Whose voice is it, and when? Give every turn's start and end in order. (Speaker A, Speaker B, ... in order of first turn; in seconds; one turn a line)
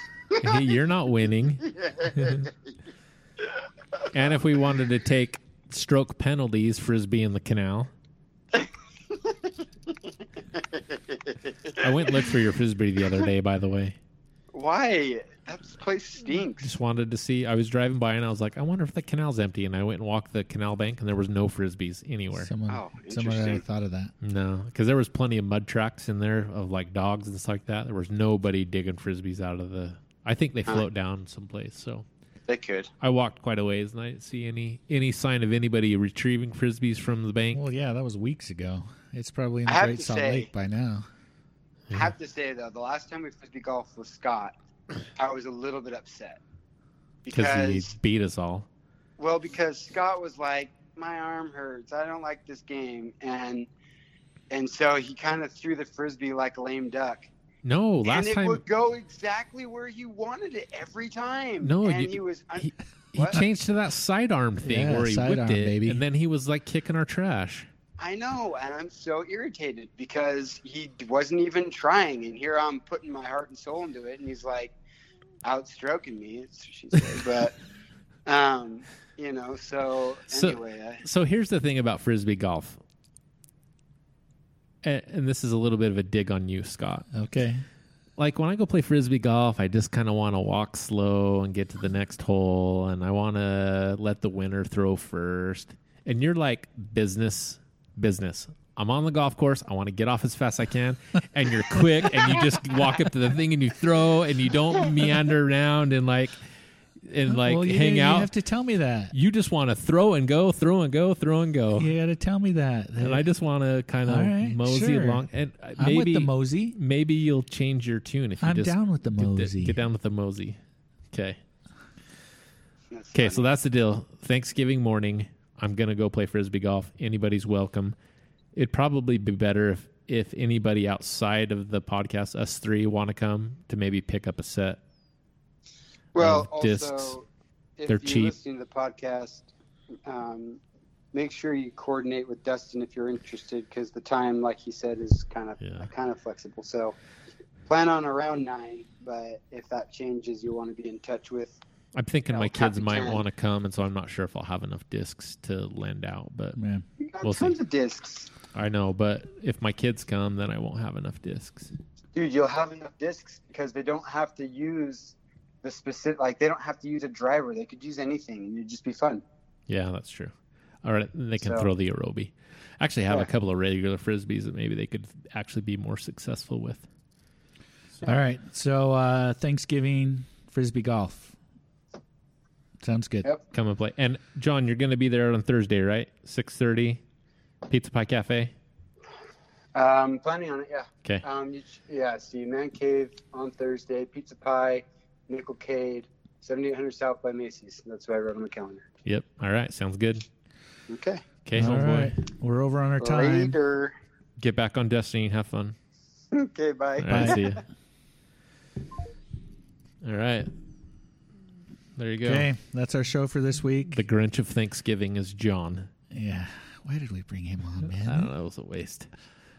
Speaker A: 0.4-2.5
Speaker B: 0.4-0.7
Speaker B: 1.6-2.7
Speaker A: 4.1-7.9
Speaker B: 8.5-12.3
Speaker A: 11.8-14.0
Speaker B: 14.5-16.7
Speaker A: 16.6-22.5
Speaker C: 22.3-24.1
Speaker B: 22.7-23.6
Speaker A: 24.2-32.1
Speaker B: 32.5-32.9
Speaker A: 33.0-37.6
Speaker C: 37.5-41.1
Speaker B: 39.7-40.5
Speaker B: 41.9-44.5
Speaker B: 45.1-46.4
Speaker B: 47.2-47.9
Speaker A: 47.3-48.6
Speaker B: 49.2-53.7
Speaker B: 54.5-57.3
Speaker A: 57.6-58.6
Speaker B: 58.0-63.4
Speaker A: 61.6-67.7
Speaker C: 64.6-66.0
Speaker B: 68.0-74.8
Speaker B: 75.4-77.6
Speaker B: 78.2-81.0
Speaker A: 80.3-82.8
Speaker A: 84.8-87.1
Speaker C: 87.1-87.7
Speaker A: 88.2-106.4
Speaker A: 107.0-108.3
Speaker C: 107.3-109.1
Speaker A: 109.1-111.9
Speaker C: 111.8-113.3
Speaker A: 113.0-120.6
Speaker C: 114.1-116.8
Speaker C: 118.4-119.8
Speaker A: 121.1-121.4
Speaker B: 122.9-123.5
Speaker A: 123.1-128.0
Speaker A: 128.6-134.8
Speaker B: 136.2-137.3
Speaker A: 136.2-137.2
Speaker B: 137.8-139.5
Speaker A: 137.9-138.3
Speaker B: 140.1-140.6
Speaker B: 141.1-146.9
Speaker A: 145.6-145.9
Speaker B: 147.7-151.6
Speaker A: 151.9-156.6
Speaker B: 152.3-153.2
Speaker C: 156.6-156.8
Speaker B: 157.0-158.3
Speaker A: 157.2-157.6
Speaker A: 158.5-161.7
Speaker B: 162.1-169.2
Speaker A: 169.7-170.3
Speaker A: 170.8-176.9
Speaker B: 171.4-171.7
Speaker C: 178.0-181.4
Speaker C: 182.8-183.3
Speaker A: 183.5-187.0
Speaker A: 187.7-188.5
Speaker B: 189.7-198.8
Speaker A: 199.1-200.2
Speaker B: 200.9-201.2
Speaker A: 201.4-202.1
Speaker C: 201.6-203.6
Speaker B: 203.0-203.9
Speaker A: 204.4-205.7
Speaker B: 206.3-207.6
Speaker A: 207.0-207.6
Speaker C: 207.1-207.4
Speaker A: 210.0-210.5
Speaker A: 212.0-212.5
Speaker C: 212.2-214.0
Speaker A: 213.9-215.9
Speaker C: 216.1-218.3
Speaker A: 217.8-219.1